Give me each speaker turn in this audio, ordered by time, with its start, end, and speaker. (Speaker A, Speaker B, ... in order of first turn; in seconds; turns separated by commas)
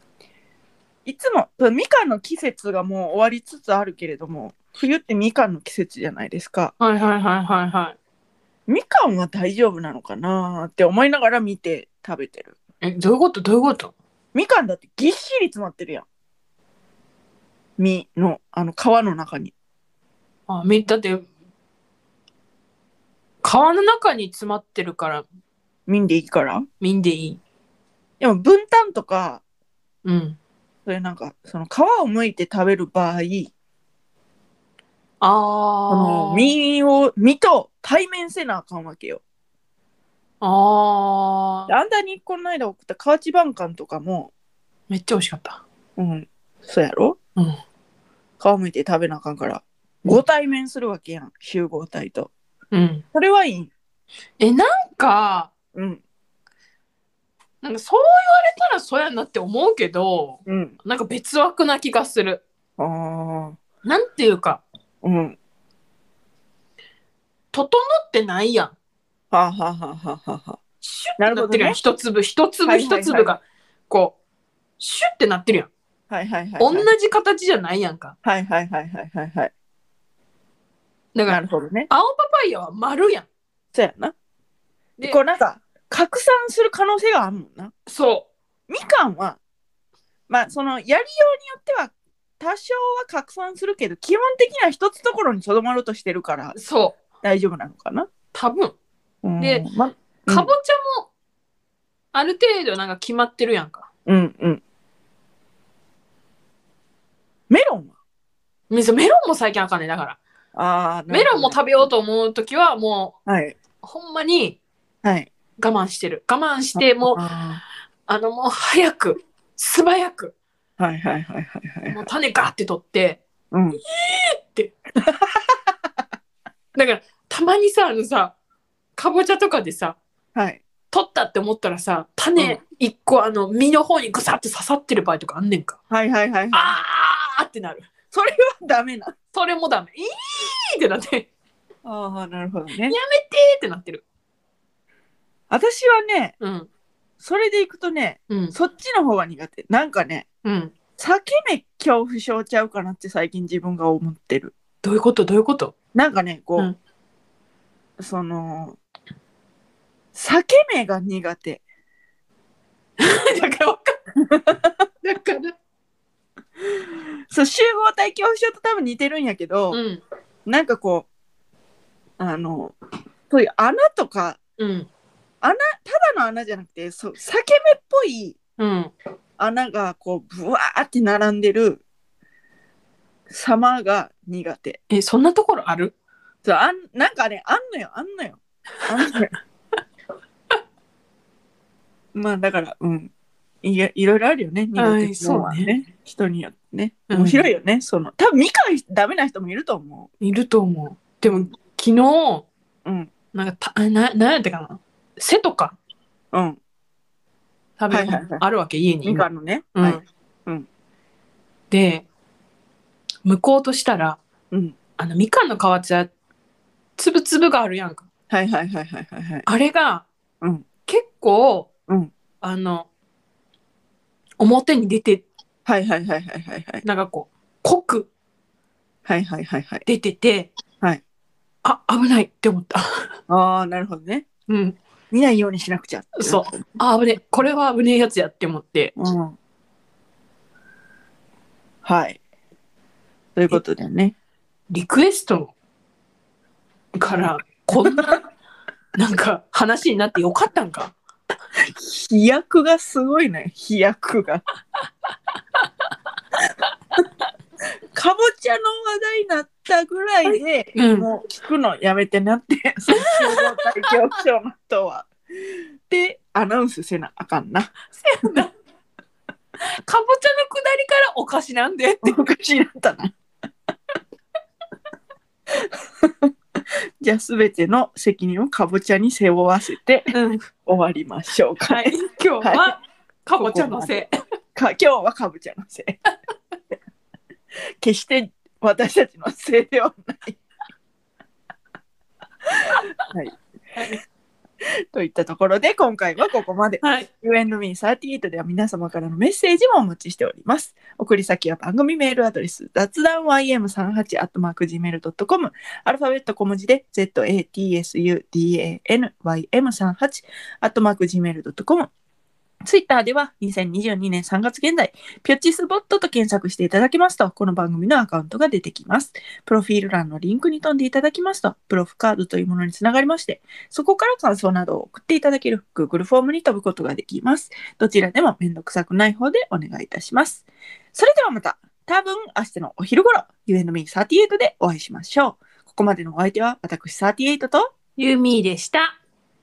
Speaker A: 1.0-6.7, Speaker B: 6.8-8.0, Speaker A: 8.7-12.6, Speaker B: 12.8-13.9, Speaker A: 14.3-16.1, Speaker A: 17.8-19.5, Speaker B: 20.5-21.3, Speaker B: 23.4-25.2, Speaker A: 25.9-26.6, Speaker B: 26.8-27.4, Speaker A: 28.2-29.4, Speaker B: 30.0-30.4, Speaker A: 30.9-33.5, Speaker B: 35.2-36.5, Speaker A: 35.9-39.2, Speaker B: 40.4-41.7, Speaker A: 41.7-44.3, Speaker B: 44.9-45.6, Speaker A: 46.0-47.2, Speaker A: 48.4-52.3, Speaker B: 52.7-53.0, Speaker A: 53.1-53.7, Speaker B: 54.4-55.5, Speaker A: 55.7-56.0, Speaker B: 57.6-62.4, Speaker A: 60.5-60.8, Speaker A: 62.8-63.6, Speaker B: 63.8-64.6, Speaker A: 65.0-65.4, Speaker B: 67.5-68.7, Speaker A: 69.3-70.6, Speaker B: 70.8-74.2, Speaker A: 71.2-71.8, Speaker A: 72.7-73.3, Speaker B: 74.8-75.7, Speaker A: 76.1-76.9, Speaker B: 76.6-78.2, Speaker A: 78.2-79.5, Speaker B: 81.1-83.3, Speaker A: 81.3-81.9, Speaker A: 83.7-84.1, Speaker A: 85.0-87.7, Speaker B: 87.9-88.3, Speaker A: 88.7-89.4, Speaker A: 90.3-96.5, Speaker B: 96.5-97.0, Speaker A: 97.2-98.1, Speaker B: 98.3-98.7, Speaker A: 99.2-100.5, Speaker B: 99.4-99.7, Speaker B: 100.3-101.1, Speaker B: 102.1-103.9, Speaker A: 104.0-104.6, Speaker A: 107.5-107.9, Speaker B: 108.7-110.2, Speaker A: 110.5-111.9, Speaker B: 111.1-113.2, Speaker A: 113.2-113.5, Speaker B: 113.8-114.6, Speaker A: 115.0-115.3, Speaker B: 115.6-117.2, Speaker A: 116.7-117.6, Speaker B: 118.1-120.3, Speaker A: 120.8-122.0, Speaker B: 121.9-123.2, Speaker A: 123.5-123.8, Speaker B: 123.8-124.7, Speaker A: 125.0-125.6, Speaker B: 126.7-128.3, Speaker B: 129.0-130.0, Speaker A: 130.3-130.6, Speaker B: 130.9-135.8, Speaker A: 135.9-136.7, Speaker B: 136.5-137.9, Speaker A: 138.1-139.1, Speaker B: 139.3-141.3, Speaker A: 141.8-143.0, Speaker B: 142.8-144.0, Speaker A: 145.5-146.3, Speaker B: 146.4-146.7, Speaker A: 147.2-150.2, Speaker B: 148.3-148.5, Speaker B: 150.4-150.7, Speaker A: 151.0-154.5, Speaker B: 154.8-155.7, Speaker A: 155.9-156.7, Speaker A: 158.0-158.8, Speaker A: 160.1-161.6, Speaker B: 163.0-163.9, Speaker A: 164.2-164.7, Speaker B: 165.0-165.5, Speaker A: 167.3-169.8, Speaker B: 169.7-170.0, Speaker A: 170.4-171.1, Speaker A: 172.2-172.7, Speaker A: 173.3-174.4, Speaker B: 174.6-174.9, Speaker A: 175.4-178.4, Speaker B: 178.6-178.9, Speaker A: 179.4-181.8, Speaker A: 183.3-184.8, Speaker B: 184.9-185.9, Speaker A: 186.4-189.3, Speaker A: 192.1-193.1, Speaker A: 193.6-200.1, Speaker B: 194.8-195.7, Speaker B: 197.1-197.5, Speaker B: 200.2-202.5, Speaker A: 201.2-201.5, Speaker A: 202.8-203.1, Speaker B: 203.3-205.8, Speaker A: 206.3-206.6, Speaker B: 207.8-210.0, Speaker A: 207.9-208.4, Speaker A: 209.0-210.7, Speaker B: 211.7-212.1, Speaker B: 213.2-214.2, Speaker A: 214.5-214.8, Speaker B: 215.0-216.1, Speaker B: 217.0-218.0, Speaker A: 218.3-219.5, Speaker B: 219.5-220.1, Speaker B: 220.8-221.7, Speaker B: 222.4-222.9, Speaker B: 224.4-225.2, Speaker A: 225.7-226.8, Speaker B: 226.8-228.1, Speaker A: 229.1-229.9, Speaker B: 229.9-230.5, Speaker B: 231.6-232.8, Speaker A: 233.3-234.2, Speaker B: 234.5-234.8, Speaker A: 235.1-236.6, Speaker B: 236.2-238.9, Speaker A: 239.0-239.3, Speaker A: 241.8-242.2, Speaker A: 243.3-244.1, Speaker B: 244.7-245.5, Speaker B: 246.9-248.2, Speaker A: 247.7-248.2, Speaker B: 248.9-250.9, Speaker A: 251.8-254.4, Speaker A: 257.9-265.1, Speaker B: 260.3-261.1, Speaker B: 263.0-263.6, Speaker A: 265.9-267.7, Speaker B: 267.9-268.5, Speaker B: 269.8-272.2, Speaker A: 272.0-273.1, Speaker A: 275.5-276.3, Speaker A: 277.0-280.1, Speaker B: 280.1-280.4, Speaker A: 280.6-282.7, Speaker B: 281.7-284.1, Speaker A: 283.4-283.9, Speaker A: 284.5-286.0, Speaker A: 287.8-290.4, Speaker A: 292.6-294.0, Speaker A: 294.9-311.9, Speaker B: 296.8-297.1, Speaker A: 312.6-337.7, Speaker B: 338.0-338.9